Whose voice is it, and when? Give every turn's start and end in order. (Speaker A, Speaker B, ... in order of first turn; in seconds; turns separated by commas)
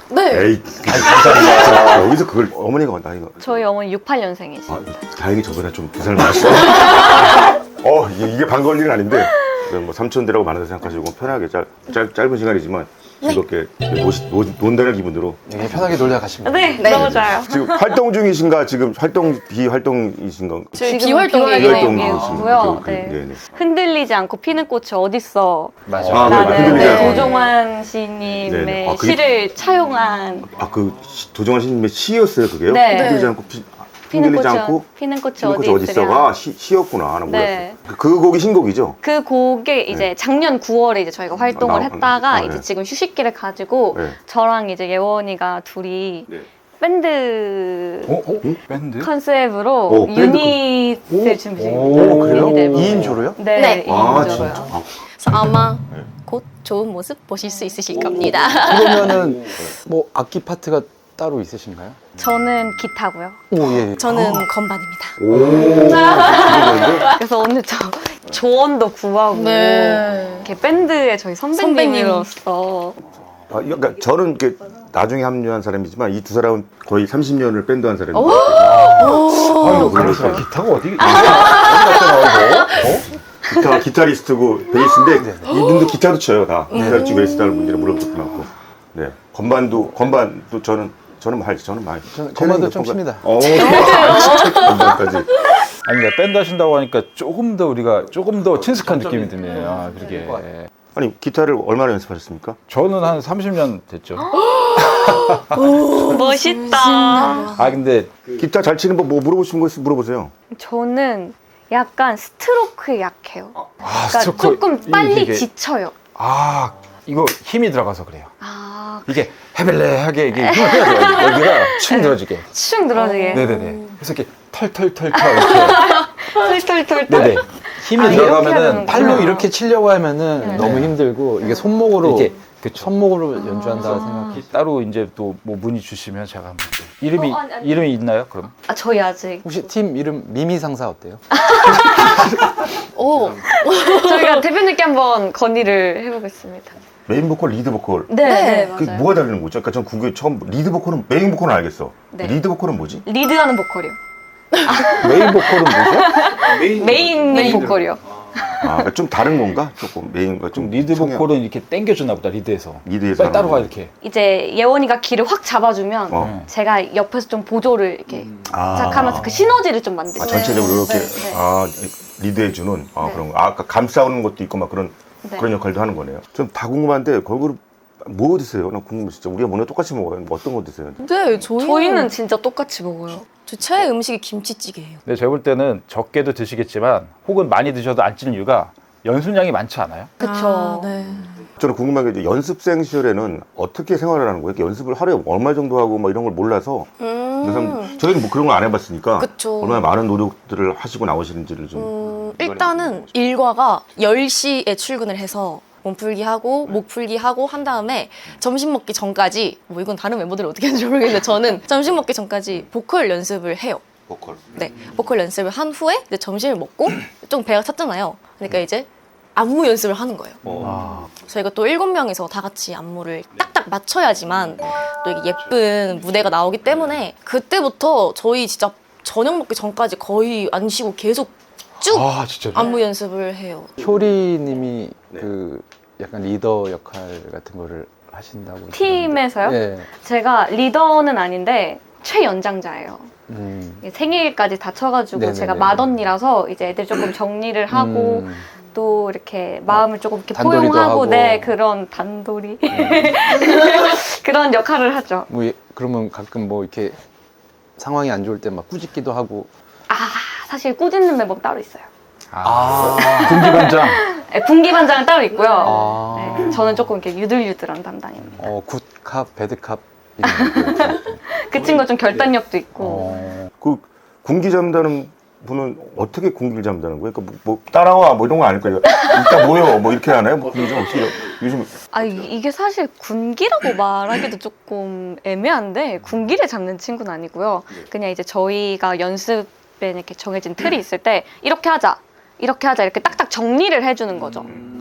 Speaker A: 0.1-0.5, Speaker B: 0.3-3.6, Speaker C: 0.9-2.1, Speaker D: 3.4-5.0, Speaker B: 4.7-16.2, Speaker E: 15.5-17.1, Speaker D: 16.4-17.8, Speaker A: 16.8-17.1, Speaker B: 16.8-20.8, Speaker A: 20.7-22.4, Speaker D: 20.8-30.5, Speaker B: 21.5-23.4, Speaker C: 25.9-27.1, Speaker B: 26.0-27.3, Speaker A: 26.4-27.5, Speaker B: 28.4-29.2, Speaker B: 30.5-34.9, Speaker D: 32.7-33.2, Speaker A: 32.9-33.4, Speaker D: 34.1-36.3, Speaker B: 35.4-39.0, Speaker D: 37.2-37.8, Speaker D: 39.0-48.1, Speaker B: 41.5-42.6, Speaker C: 48.1-49.1, Speaker D: 49.0-54.7, Speaker B: 49.9-50.6, Speaker C: 51.6-53.0, Speaker E: 52.0-53.4, Speaker B: 52.8-53.2, Speaker A: 53.5-53.8, Speaker B: 53.8-56.1, Speaker A: 55.2-59.2, Speaker B: 57.9-58.7, Speaker E: 58.2-62.0, Speaker D: 62.2-63.4, Speaker E: 63.5-64.4, Speaker A: 63.9-67.2, Speaker B: 65.2-67.0, Speaker D: 65.5-73.0, Speaker A: 69.3-70.5, Speaker A: 71.5-72.3, Speaker B: 73.5-78.9, Speaker A: 78.1-80.2, Speaker C: 78.6-83.0, Speaker B: 79.6-80.4, Speaker B: 81.0-82.0, Speaker A: 81.0-83.0, Speaker B: 83.5-95.3, Speaker E: 85.2-85.6, Speaker A: 86.7-88.4, Speaker E: 92.1-93.3, Speaker A: 93.4-95.0, Speaker D: 93.6-93.9, Speaker C: 95.8-100.7, Speaker E: 98.8-100.4, Speaker B: 100.9-102.6, Speaker C: 102.7-104.3, Speaker A: 104.5-107.6, Speaker D: 106.0-107.6, Speaker C: 107.5-108.4, Speaker B: 108.3-110.3, Speaker D: 110.5-115.9, Speaker C: 113.8-115.5, Speaker C: 116.2-118.3, Speaker D: 118.4-119.3, Speaker C: 119.1-122.4, Speaker D: 120.3-123.5, Speaker A: 122.9-124.0, Speaker C: 123.3-126.0, Speaker D: 125.1-129.5, Speaker C: 127.1-129.4, Speaker E: 128.9-134.4, Speaker D: 130.4-130.8, Speaker C: 130.5-130.9, Speaker C: 132.0-133.0, Speaker D: 133.3-134.4, Speaker C: 133.8-138.5, Speaker D: 137.2-137.9, Speaker D: 138.6-139.6, Speaker E: 139.4-141.2, Speaker D: 141.3-142.7, Speaker A: 142.9-144.4, Speaker D: 143.7-146.8, Speaker B: 147.1-153.0, Speaker D: 148.1-149.1, Speaker A: 148.2-148.7, Speaker D: 152.1-152.4, Speaker D: 153.0-153.9, Speaker D: 154.6-158.9, Speaker C: 154.9-157.7, Speaker A: 157.3-157.7, Speaker B: 158.6-161.3, Speaker C: 160.5-163.9, Speaker B: 162.8-163.7, Speaker D: 164.0-171.4, Speaker B: 166.1-166.3, Speaker C: 166.2-166.5, Speaker B: 168.5-169.3, Speaker B: 170.2-181.1, Speaker A: 170.2-171.1, Speaker D: 175.2-175.5, Speaker A: 181.0-182.1, Speaker D: 181.6-183.2, Speaker A: 183.4-185.0, Speaker C: 185.1-190.1, Speaker D: 190.2-190.9, Speaker A: 190.2-191.4, Speaker B: 191.6-196.9, Speaker A: 197.0-198.1, Speaker B: 197.4-203.2, Speaker A: 199.2-199.9, Speaker A: 201.7-213.8, Speaker B: 214.1-214.6, Speaker A: 214.5-220.4, Speaker B: 220.4-220.8, Speaker A: 221.2-233.7, Speaker C: 231.8-232.7, Speaker E: 233.8-239.9, Speaker D: 238.7-243.1, Speaker E: 243.3-243.8, Speaker D: 243.8-255.3, Speaker E: 245.1-245.9, Speaker E: 247.7-248.5, Speaker E: 249.7-251.6, Speaker E: 252.7-253.2, Speaker E: 255.3-257.0, Speaker E: 257.8-259.5, Speaker D: 259.9-261.9, Speaker C: 262.3-264.0, Speaker E: 262.4-263.2, Speaker D: 262.8-268.4, Speaker E: 265.6-266.7, Speaker E: 268.4-271.2, Speaker D: 270.2-273.4, Speaker C: 272.8-273.5, Speaker B: 273.6-281.9, Speaker D: 281.9-294.5